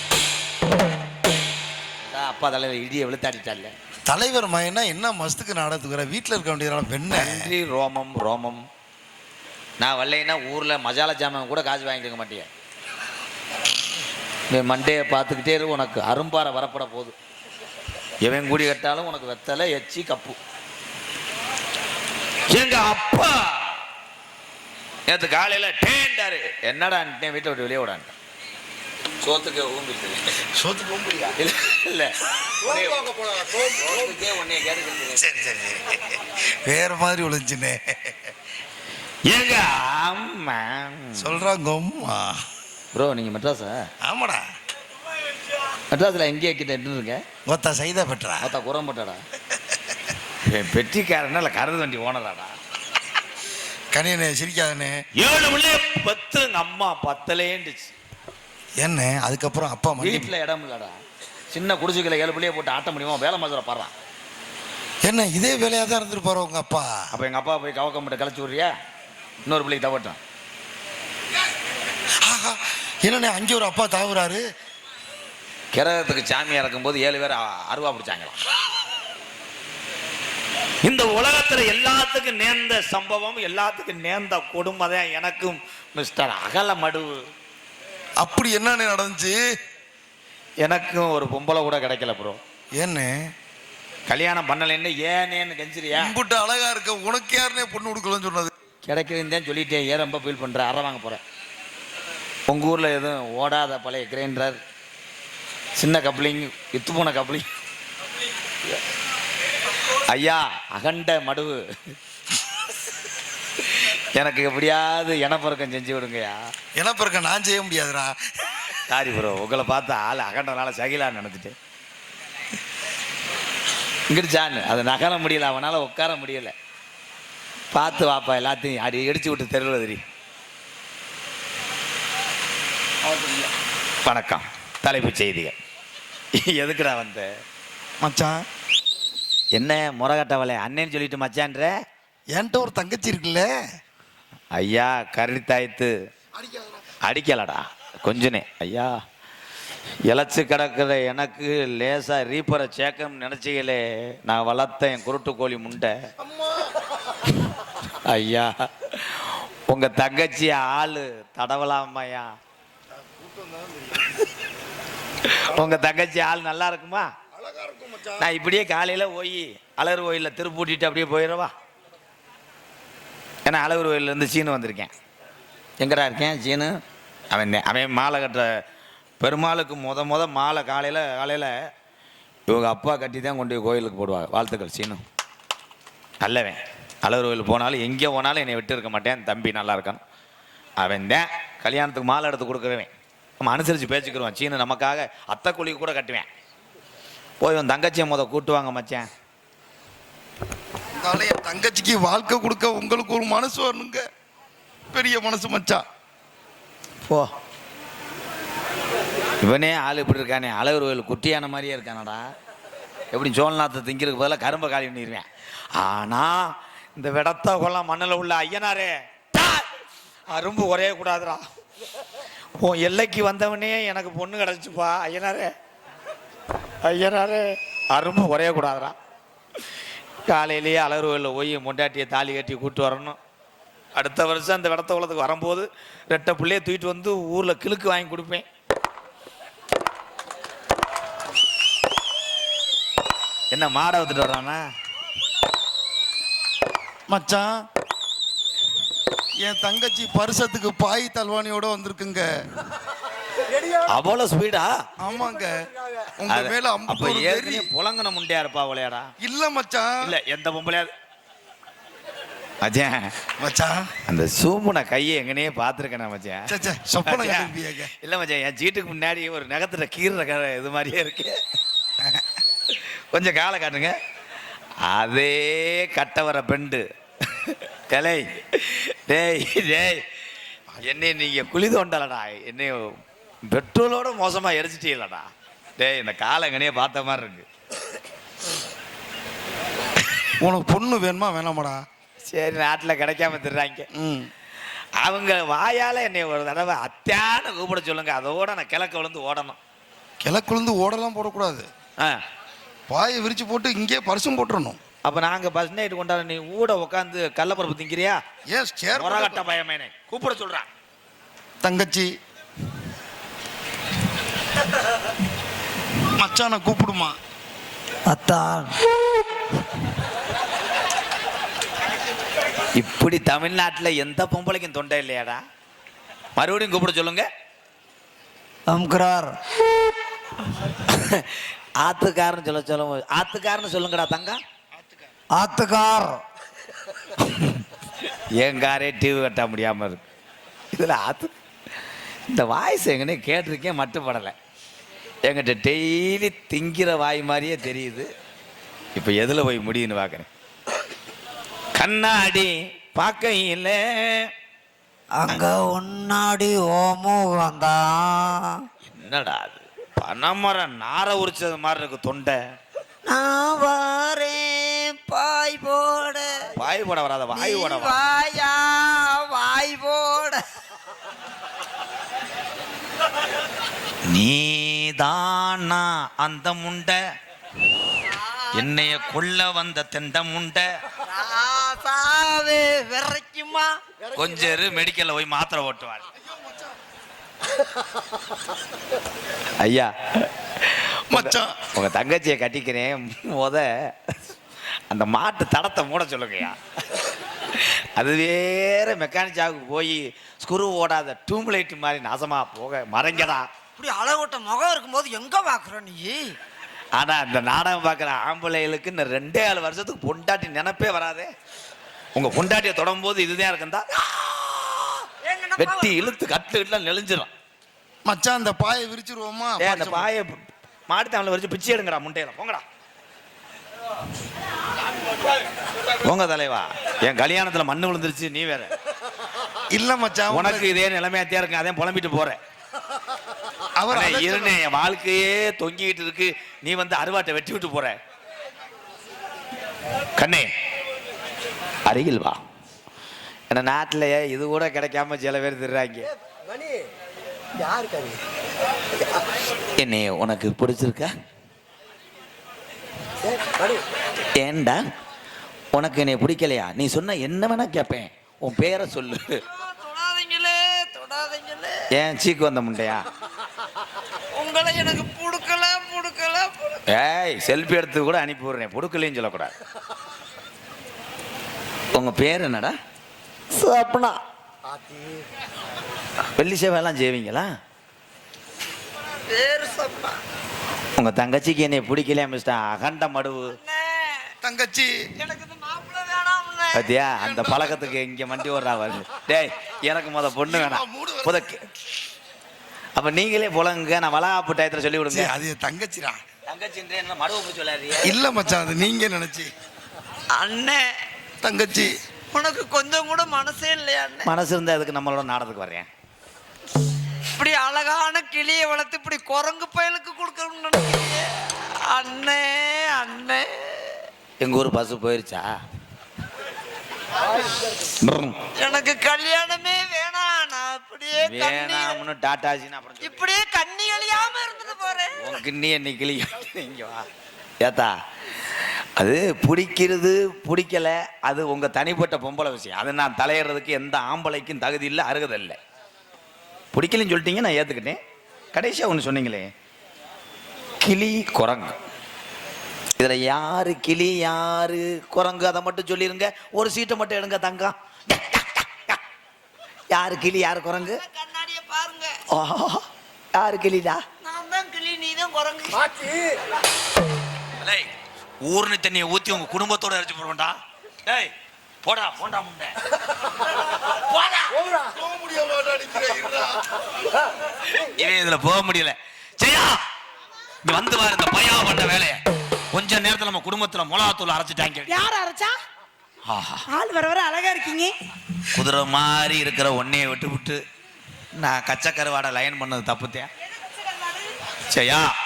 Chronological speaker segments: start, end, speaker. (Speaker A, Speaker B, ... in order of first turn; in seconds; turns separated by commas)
Speaker A: 2.0-3.7, Speaker B: 4.1-7.5, Speaker A: 7.1-8.6, Speaker A: 9.8-12.5, Speaker A: 14.5-17.1, Speaker A: 18.2-20.4, Speaker A: 22.5-23.8, Speaker A: 25.1-28.1, Speaker A: 29.2-30.4, Speaker B: 30.6-31.4, Speaker A: 31.4-35.3, Speaker B: 35.1-38.3, Speaker A: 39.3-41.4, Speaker B: 41.2-42.4, Speaker A: 42.9-43.9, Speaker B: 44.0-44.4, Speaker A: 45.9-47.2, Speaker B: 47.5-48.5, Speaker A: 48.4-49.2, Speaker A: 50.4-52.5, Speaker B: 53.9-55.0, Speaker A: 55.2-57.9, Speaker B: 58.8-60.3, Speaker A: 60.0-61.0, Speaker A: 61.5-63.9, Speaker B: 65.0-67.1, Speaker A: 67.1-68.7, Speaker A: 69.4-70.2, Speaker B: 72.2-74.4, Speaker A: 75.7-78.3, Speaker A: 80.8-87.2, Speaker B: 88.2-89.4, Speaker A: 90.6-92.4, Speaker B: 92.8-93.1, Speaker A: 94.1-96.1, Speaker B: 95.9-98.5, Speaker A: 98.8-101.2, Speaker A: 102.5-104.6, Speaker A: 105.8-107.5, Speaker A: 110.0-111.6, Speaker A: 114.1-116.4, Speaker B: 116.8-118.1, Speaker A: 118.9-121.5, Speaker A: 124.1-126.5, Speaker A: 127.7-130.0, Speaker A: 134.0-135.6, Speaker A: 136.4-137.3, Speaker B: 138.0-138.3, Speaker A: 139.5-141.7, Speaker B: 142.3-143.5, Speaker A: 144.6-145.9, Speaker A: 147.0-148.9, Speaker A: 150.1-155.9, Speaker A: 158.1-162.3, Speaker B: 163.2-164.0, Speaker A: 165.2-167.1, Speaker B: 167.4-168.2, Speaker A: 168.2-171.5, Speaker A: 173.4-174.9, Speaker A: 175.8-176.7, Speaker A: 177.3-178.5, Speaker A: 179.2-181.5, Speaker A: 182.5-185.0, Speaker A: 186.2-190.0, Speaker A: 190.8-196.3, Speaker A: 197.4-199.1, Speaker B: 201.0-204.0, Speaker B: 204.9-205.8, Speaker A: 209.4-212.2, Speaker A: 213.1-215.2, Speaker A: 215.8-219.6, Speaker A: 220.3-221.4, Speaker A: 222.6-225.5, Speaker A: 226.8-228.9, Speaker A: 230.3-233.2, Speaker A: 233.9-238.4, Speaker A: 243.5-244.6, Speaker B: 247.1-247.5, Speaker B: 249.4-252.2, Speaker A: 253.9-254.7, Speaker B: 255.0-255.6, Speaker B: 256.2-257.7, Speaker A: 256.3-259.1, Speaker B: 259.2-259.9, Speaker A: 260.0-260.9, Speaker A: 262.6-263.1, Speaker B: 263.4-263.8, Speaker A: 264.1-266.4, Speaker B: 266.5-267.9, Speaker A: 267.0-271.4, Speaker A: 272.7-273.9, Speaker A: 274.8-280.0, Speaker A: 280.8-282.9, Speaker A: 283.4-287.4, Speaker B: 290.4-291.8, Speaker A: 292.3-293.9, Speaker B: 293.9-294.3, Speaker A: 295.0-299.6, Speaker B: 300.2-301.7, Speaker B: 302.9-304.8, Speaker A: 305.0-308.2, Speaker B: 308.5-309.4, Speaker A: 308.9-310.7, Speaker B: 311.6-312.1, Speaker B: 316.1-317.1, Speaker C: 318.1-318.8, Speaker A: 322.8-325.4, Speaker A: 326.4-327.3, Speaker C: 328.7-329.4, Speaker A: 330.8-334.4, Speaker C: 335.3-336.2, Speaker A: 338.4-340.0, Speaker A: 340.7-341.3, Speaker A: 342.3-344.3, Speaker A: 345.3-348.1, Speaker A: 348.9-350.3, Speaker A: 351.8-354.3, Speaker C: 355.2-358.6, Speaker A: 358.9-362.4, Speaker C: 363.0-366.5, Speaker A: 366.5-367.9, Speaker C: 367.3-370.4, Speaker A: 374.1-377.0, Speaker C: 378.1-379.0, Speaker A: 378.5-380.7, Speaker C: 381.0-383.8, Speaker A: 384.1-386.0, Speaker A: 389.6-394.1, Speaker B: 391.1-391.6, Speaker A: 394.9-396.6, Speaker A: 397.5-403.4, Speaker C: 403.8-406.4, Speaker A: 406.9-411.3, Speaker A: 412.1-413.8, Speaker C: 415.2-416.0, Speaker A: 415.6-417.3, Speaker B: 418.1-420.1, Speaker A: 419.6-420.3, Speaker A: 420.9-422.6, Speaker A: 426.0-428.7, Speaker B: 429.7-430.7, Speaker A: 430.3-432.4, Speaker B: 433.8-434.6, Speaker A: 433.9-438.0, Speaker A: 440.2-440.5, Speaker A: 441.9-442.4, Speaker A: 443.5-446.1, Speaker A: 449.8-451.1, Speaker A: 454.4-454.8, Speaker A: 455.7-459.4, Speaker C: 459.4-461.8, Speaker A: 461.9-463.1, Speaker C: 464.3-466.8, Speaker A: 466.9-469.5, Speaker A: 471.9-472.7, Speaker C: 473.5-474.2, Speaker A: 476.4-477.5, Speaker C: 479.3-480.2, Speaker A: 481.0-483.6, Speaker C: 483.5-484.3, Speaker B: 484.4-484.9, Speaker C: 485.2-486.9, Speaker A: 486.7-491.6, Speaker B: 487.2-487.6, Speaker B: 490.4-491.5, Speaker A: 492.9-495.3, Speaker B: 495.1-496.2, Speaker A: 496.5-498.2, Speaker B: 498.0-499.5, Speaker C: 500.3-500.8, Speaker B: 501.4-501.9, Speaker C: 502.3-504.3, Speaker A: 504.2-505.9, Speaker C: 507.3-514.1, Speaker A: 514.4-515.5, Speaker A: 518.0-518.4, Speaker C: 518.5-522.0, Speaker A: 521.2-523.2, Speaker C: 523.0-525.4, Speaker A: 525.1-527.1, Speaker A: 527.6-527.9, Speaker A: 529.0-535.6, Speaker A: 536.7-538.0, Speaker A: 538.5-539.5, Speaker A: 540.8-541.8, Speaker A: 543.0-549.0, Speaker A: 549.9-551.0, Speaker C: 550.8-552.2, Speaker A: 552.3-552.8, Speaker A: 553.4-554.0, Speaker C: 554.2-556.1, Speaker A: 557.6-557.9, Speaker A: 558.4-561.3, Speaker A: 561.8-562.7, Speaker B: 564.9-566.6, Speaker A: 567.7-569.8, Speaker A: 570.6-572.2, Speaker A: 572.7-575.0, Speaker D: 574.9-575.5, Speaker A: 576.3-576.6, Speaker D: 576.7-577.9, Speaker A: 578.5-580.6, Speaker A: 581.3-583.3, Speaker D: 583.4-584.3, Speaker A: 584.7-585.1